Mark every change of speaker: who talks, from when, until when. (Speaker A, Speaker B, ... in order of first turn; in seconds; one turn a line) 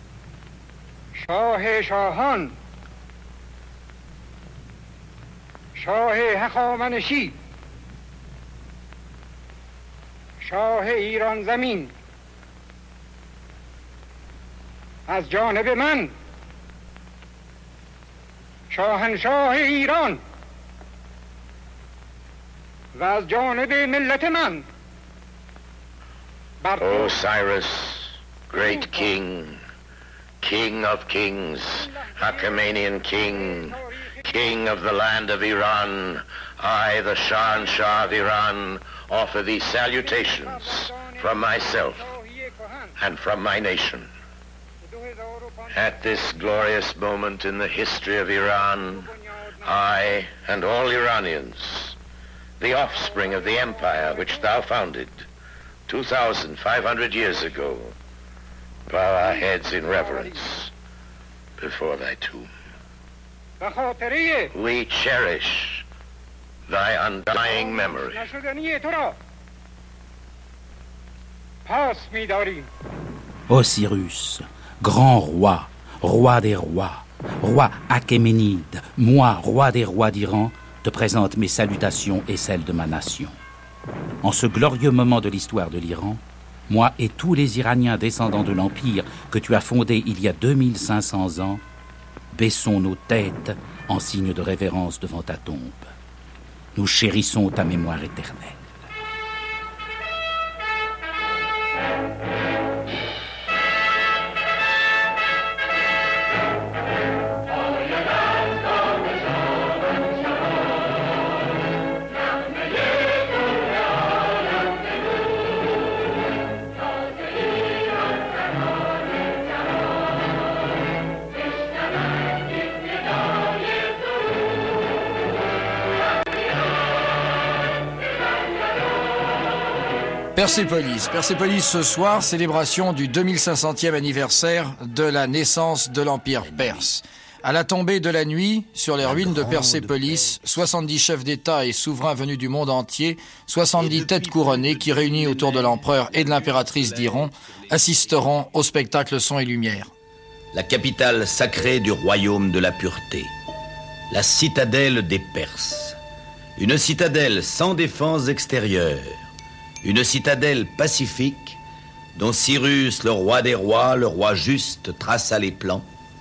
Speaker A: 1.1-2.5
Speaker A: 5.7-7.3
Speaker A: 10.4-11.9
Speaker A: 15.1-16.1
Speaker A: 18.7-20.2
Speaker A: 22.9-24.6
Speaker A: 26.6-27.2
Speaker B: 26.8-29.6
Speaker A: 28.6-29.1
Speaker B: 30.4-42.1
Speaker A: 31.8-34.0
Speaker A: 39.9-42.9
Speaker B: 43.0-44.1
Speaker A: 44.8-46.0
Speaker B: 45.7-49.1
Speaker A: 48.9-50.0
Speaker B: 49.6-52.0
Speaker B: 52.6-55.2
Speaker B: 55.9-57.9
Speaker B: 58.9-60.7
Speaker A: 60.0-60.3
Speaker B: 61.6-62.5
Speaker A: 63.6-64.5
Speaker B: 64.5-65.8
Speaker B: 66.7-68.3
Speaker A: 67.4-69.2
Speaker A: 71.7-72.7
Speaker C: 73.5-83.3
Speaker C: 84.2-91.6
Speaker C: 92.3-95.9
Speaker C: 96.7-98.6
Speaker D: 130.3-149.9
Speaker E: 136.4-136.9
Speaker E: 139.0-140.6
Speaker E: 143.7-147.3
Speaker E: 150.5-153.3
Speaker E: 154.1-156.0
Speaker E: 156.6-159.2
Speaker E: 159.8-161.6
Speaker E: 162.2-165.8